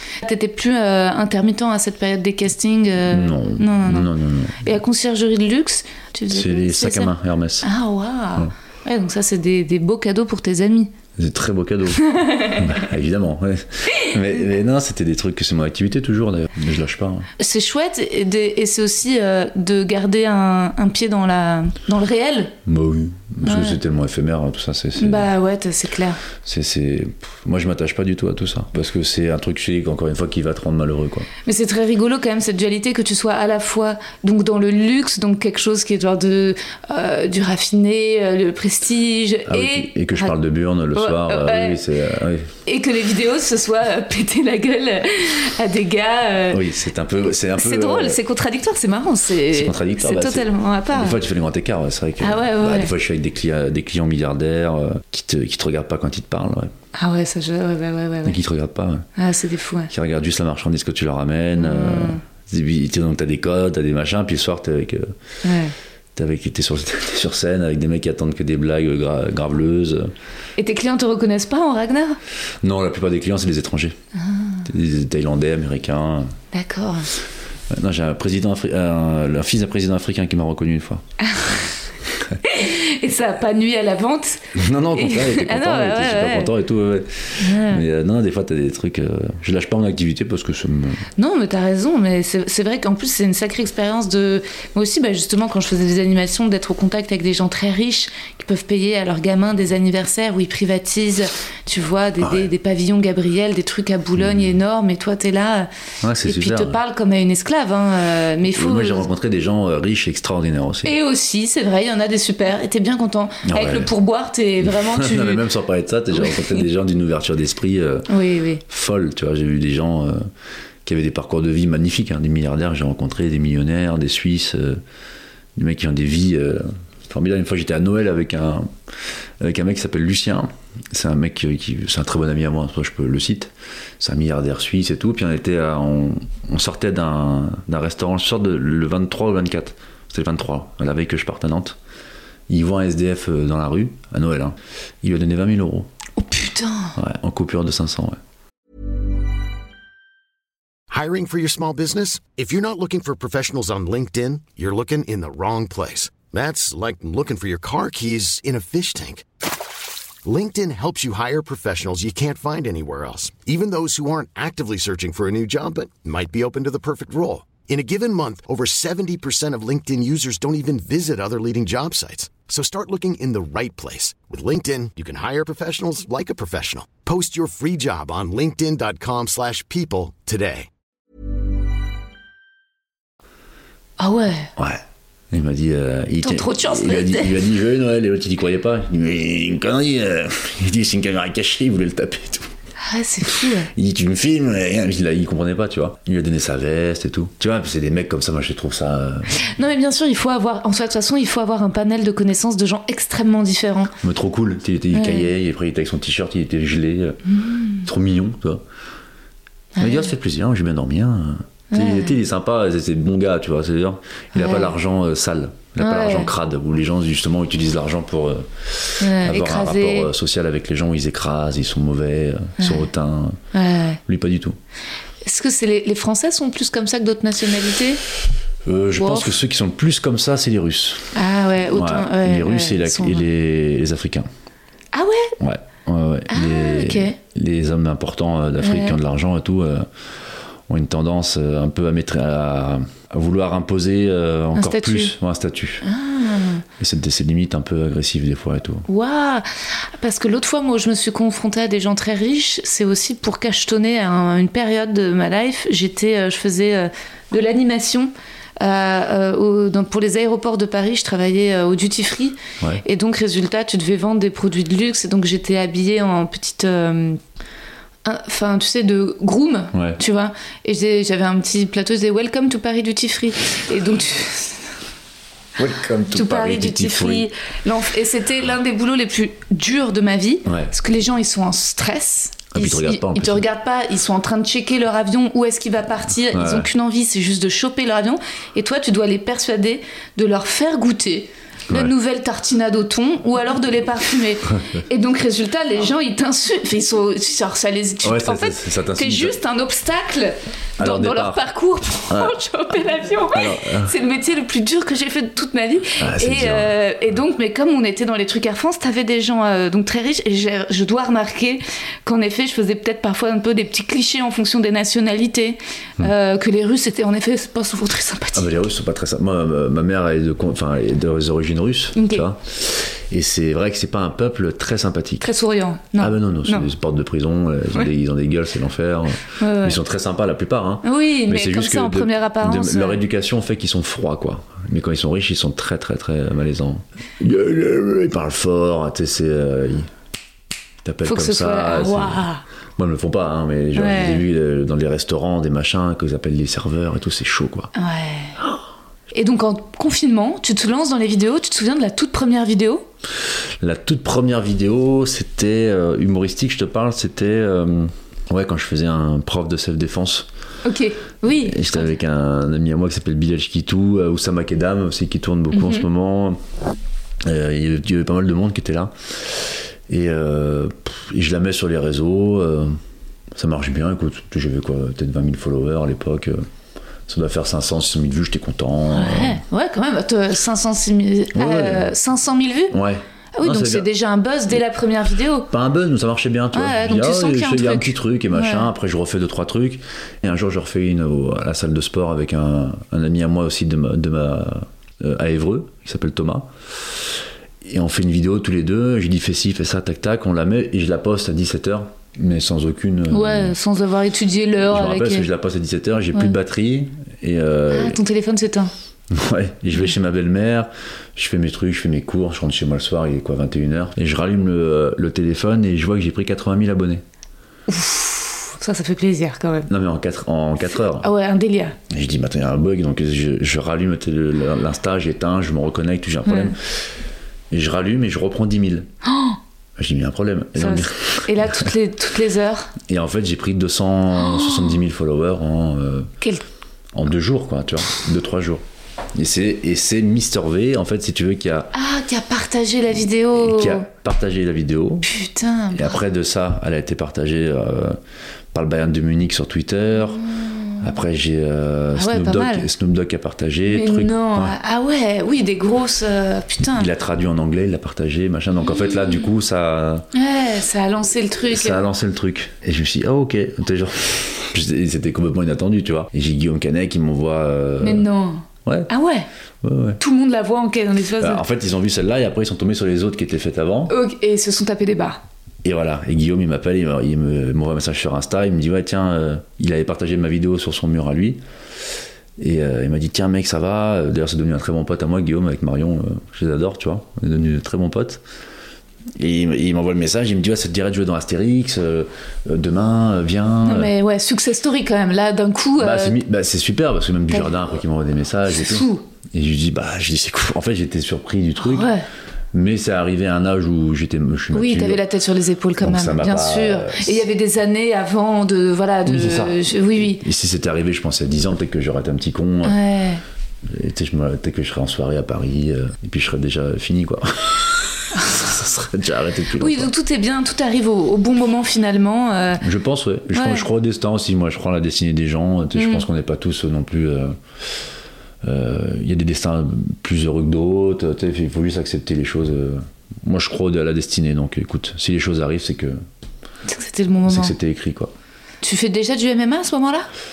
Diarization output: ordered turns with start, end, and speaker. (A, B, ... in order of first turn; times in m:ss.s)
0:00.2-0:04.1 A
0:03.1-0:04.6 B
0:04.6-0:10.9 A
0:06.3-0:07.7 B
0:11.2-0:17.3 B
0:12.1-0:12.7 A
0:17.4-0:22.5 A
0:22.6-0:25.3 B
0:23.4-0:23.8 A
0:25.0-0:26.2 A
0:26.4-0:31.3 B
0:31.4-0:40.4 A
0:39.5-0:42.5 B
0:40.9-0:41.8 A
0:42.6-0:46.6 A
0:46.5-0:48.2 B
0:47.6-0:51.2 A
0:49.5-0:56.7 B
0:52.2-0:52.9 A
0:56.9-0:58.4 A
0:58.2-0:59.1 B
0:59.2-0:59.9 A
0:59.9-1:05.1 B
1:01.6-1:02.2 A
1:05.4-1:05.7 A
1:06.2-1:10.1 B
1:10.6-1:12.2 A
1:12.6-1:14.0 B
1:14.2-1:14.6 A
1:14.6-1:16.3 B
1:16.5-1:17.1 A
1:17.7-1:21.0 B
1:21.2-1:21.6 A
1:22.4-1:26.5 A
1:24.5-1:31.0 B
1:27.4-1:27.8 A
1:31.2-1:45.7 A
1:42.2-1:42.5 B
1:44.2-1:44.5 B
1:46.0-1:46.8 B
1:46.2-1:49.0 A
1:48.5-1:50.9 B
1:50.8-1:55.4 A
1:53.4-1:53.9 B
1:54.6-1:58.1 B
1:56.2-1:56.6 A
1:58.1-1:58.6 A
1:58.6-2:00.2 B
2:00.8-2:04.8 B
2:05.6-2:08.7 B
2:09.4-2:21.8 B
2:22.5-2:25.9 B
2:26.2-2:27.0 A
2:27.0-2:28.2 B
2:30.9-2:39.2 C
2:40.2-3:00.7 C
3:04.0-3:04.5 A
3:04.6-3:12.5 B
3:06.2-3:07.4 A
3:12.8-3:13.7 A
3:13.7-3:19.3 B
3:19.4-3:23.9 A
3:24.0-3:27.2 B
3:24.9-3:25.3 A
3:27.3-3:27.8 A
3:27.8-3:28.6 B
3:29.8-3:30.1 A
3:29.8-3:43.4 B
3:31.7-3:32.2 A
3:34.3-3:34.7 A
3:35.8-3:36.3 A
3:39.0-3:40.1 A
3:42.6-3:42.8 A
3:43.5-3:44.0 A
3:44.0-3:44.6 B
3:45.2-3:48.0 A
3:48.6-3:51.1 B
3:49.0-3:49.3 A
3:51.1-3:53.2 A
3:51.7-3:54.3 B
3:54.9-3:55.3 A
3:55.4-3:59.8 B
3:56.3-3:57.2 A
3:58.6-3:59.0 A
4:00.7-4:05.8 B
4:04.5-4:05.1 A
4:05.8-4:06.6 A
4:06.8-4:08.8 B
4:08.9-4:27.2 A
4:28.0-4:34.6 A
4:29.7-4:30.0 B
4:35.6-4:37.3 B
4:36.1-5:18.5 A
4:40.4-4:40.7 B
4:42.5-4:43.4 B
4:46.3-4:46.7 B
4:58.0-4:59.4 B
5:00.8-5:01.4 B
5:02.1-5:02.4 B
5:03.3-5:03.9 B
5:06.0-5:06.8 B
5:18.3-5:25.3 B
5:21.9-5:22.2 A
5:25.2-5:26.7 A
5:26.0-5:39.9 B
5:29.4-5:29.8 A
5:30.8-5:33.0 A
5:40.8-5:42.2 B
5:41.0-5:42.4 A
5:42.8-5:47.7 B
5:43.7-5:44.2 A
5:47.7-5:48.4 A
5:49.1-5:52.8 A
5:53.6-6:00.3 B
6:00.6-6:01.9 A
6:01.3-6:06.4 B
6:05.5-6:05.8 A
6:07.2-6:12.8 B
6:13.3-6:16.4 B
6:17.1-6:19.4 B
6:18.9-6:22.8 A
6:21.3-6:21.9 B
6:22.7-6:23.9 B
6:23.3-6:25.5 A
6:25.5-6:37.0 B
6:26.5-6:28.7 A
6:37.6-6:43.5 B
6:43.1-6:45.2 A
6:44.6-6:48.0 B
6:47.7-6:48.7 A
6:49.1-6:57.0 B
6:57.7-6:59.7 A
6:59.7-7:01.1 B
7:00.9-7:01.8 A
7:01.9-7:06.8 B
7:06.2-7:06.5 A
7:07.5-7:08.9 B
7:09.0-7:09.4 A
7:09.8-7:11.7 B
7:10.6-7:12.7 A
7:12.8-7:16.1 B
7:14.2-7:14.8 A
7:16.9-7:18.6 B
7:19.1-7:21.7 B
7:21.7-7:23.8 A
7:23.3-7:25.1 B
7:25.0-7:26.0 A
7:25.7-7:28.0 B
7:28.5-7:30.2 B
7:30.3-7:30.8 A
7:30.8-7:34.6 B
7:31.9-7:32.7 A
7:33.7-7:36.9 A
7:36.7-7:40.0 B
7:40.1-7:41.8 A
7:41.5-7:48.0 B
7:47.8-7:49.3 A
7:49.6-7:50.0 B
7:50.0-7:51.4 A
7:51.2-7:53.9 B
7:53.9-7:55.2 A
7:55.6-8:01.4 B
8:02.4-8:08.2 B
8:09.2-8:13.9 B
8:13.6-8:16.2 A
8:15.8-8:21.9 B
8:18.5-8:19.0 A
8:21.6-8:22.0 A
8:22.5-8:25.0 B
8:24.5-8:30.2 A
8:25.8-8:27.2 B
8:29.0-8:32.8 B
8:32.6-8:33.2 A
8:33.6-8:39.9 B
8:39.6-8:42.6 A
8:42.6-8:47.4 B
8:43.3-8:43.6 A
8:45.7-8:46.0 A
8:48.4-8:56.0 B
8:56.6-8:57.5 A
8:57.2-8:58.1 B
8:58.6-9:00.1 A